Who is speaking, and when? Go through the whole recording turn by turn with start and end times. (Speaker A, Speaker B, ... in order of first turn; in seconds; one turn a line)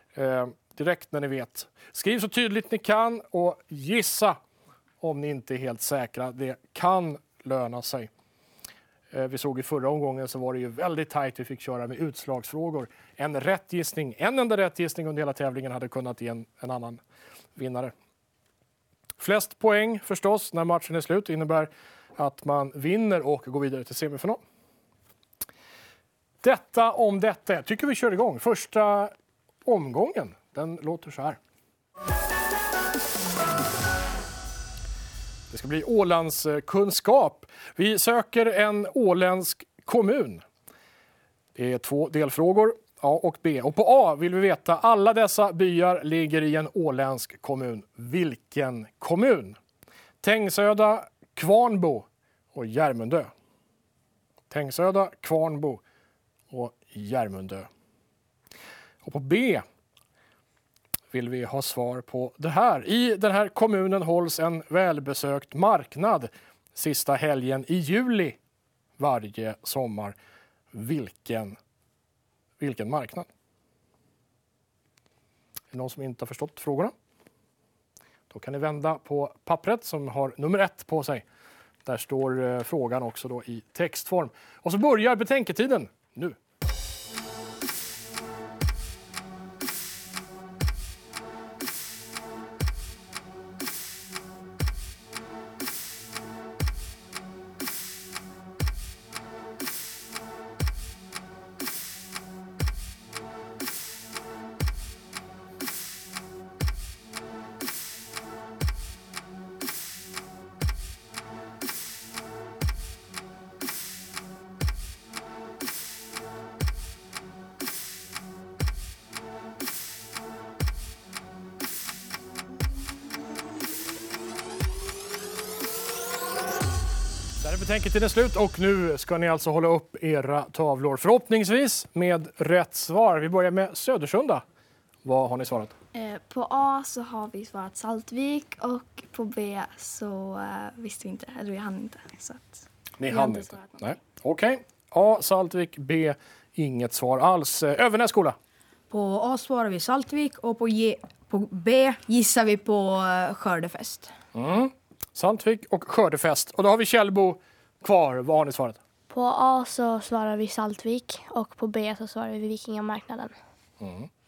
Speaker A: 0.1-4.4
Speaker A: 5.0-8.1
Speaker A: 9.1-17.0
Speaker A: 17.6-17.9
Speaker A: 19.2-24.4
Speaker A: 26.4-29.1
Speaker A: 29.6-31.4
Speaker A: 35.5-40.4
Speaker A: 41.5-49.6
Speaker A: 50.2-53.3
Speaker A: 54.5-55.8
Speaker A: 56.5-57.7
Speaker A: 59.0-59.6
Speaker A: 61.1-68.4
Speaker A: 69.0-70.2
Speaker A: 70.7-71.6
Speaker A: 72.6-73.3
Speaker A: 75.7-76.9
Speaker A: 78.3-81.2
Speaker A: 81.9-86.4
Speaker A: 127.4-134.4
Speaker A: 135.1-135.7
Speaker B: 135.9-143.7
Speaker A: 143.0-148.4
Speaker C: 148.9-154.1
Speaker A: 154.3-158.8
Speaker D: 159.1-163.3
Speaker A: 163.8-164.1